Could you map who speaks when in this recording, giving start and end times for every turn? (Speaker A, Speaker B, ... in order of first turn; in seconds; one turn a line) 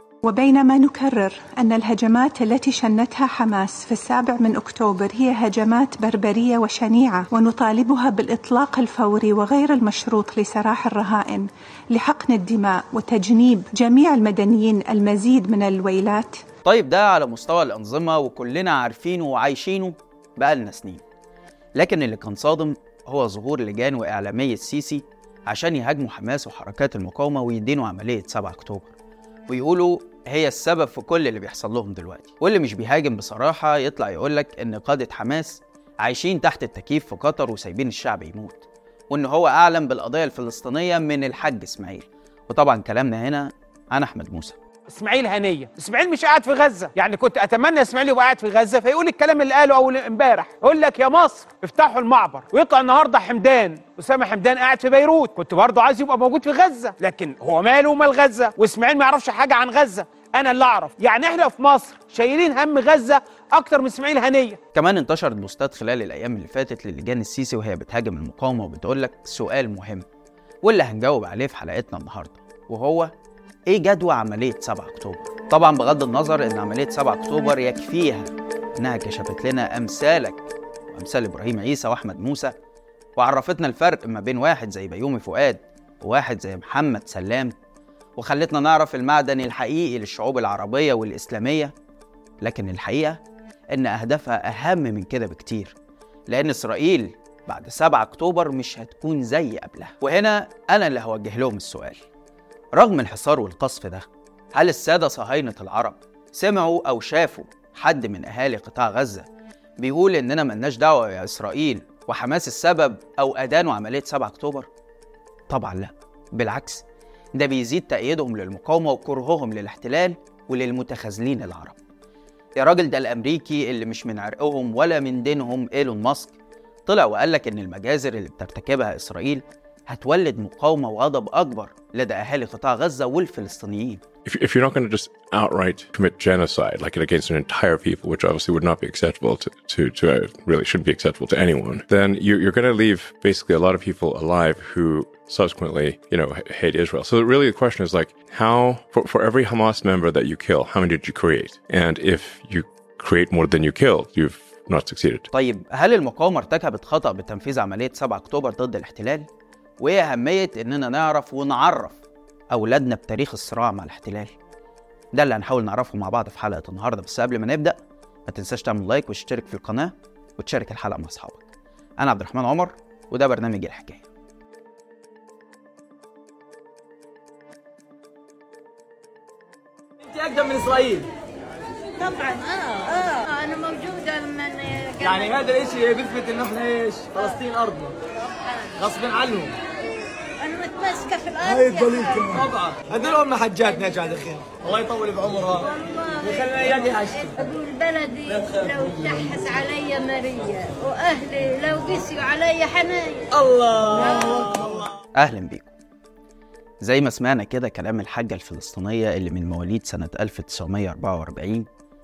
Speaker A: 0.2-16.4
Speaker B: 16.6-21.0
Speaker B: 21.8-28.9
Speaker B: 29.5-44.6
Speaker C: 44.9-64.6
Speaker B: 64.7-70.0
Speaker B: 70.6-73.1
Speaker B: 73.7-82.5
Speaker B: 83.2-87.5
Speaker B: 88.2-91.7
Speaker B: 92.4-93.2
Speaker B: 93.7-95.8
Speaker B: 96.3-102.0
Speaker B: 102.8-109.3
Speaker B: 109.8-114.7
Speaker B: 115.5-121.8
Speaker B: 122.6-134.0
Speaker D: 134.2-155.3
Speaker B: 155.3-159.3
Speaker B: 159.8-162.0
Speaker B: 162.5-164.3
Speaker B: 165.1-171.5
Speaker B: 172.0-174.1
Speaker E: 180.1-181.1
Speaker F: 182.0-185.9
Speaker E: 185.2-187.9
Speaker F: 187.1-187.4
Speaker F: 188.2-189.1
Speaker E: 188.9-189.5
Speaker F: 190.4-192.5
Speaker E: 191.7-195.6
Speaker F: 193.7-194.1
Speaker F: 195.6-203.4
Speaker F: 203.9-204.7
Speaker B: 205.2-205.7
Speaker B: 206.8-211.7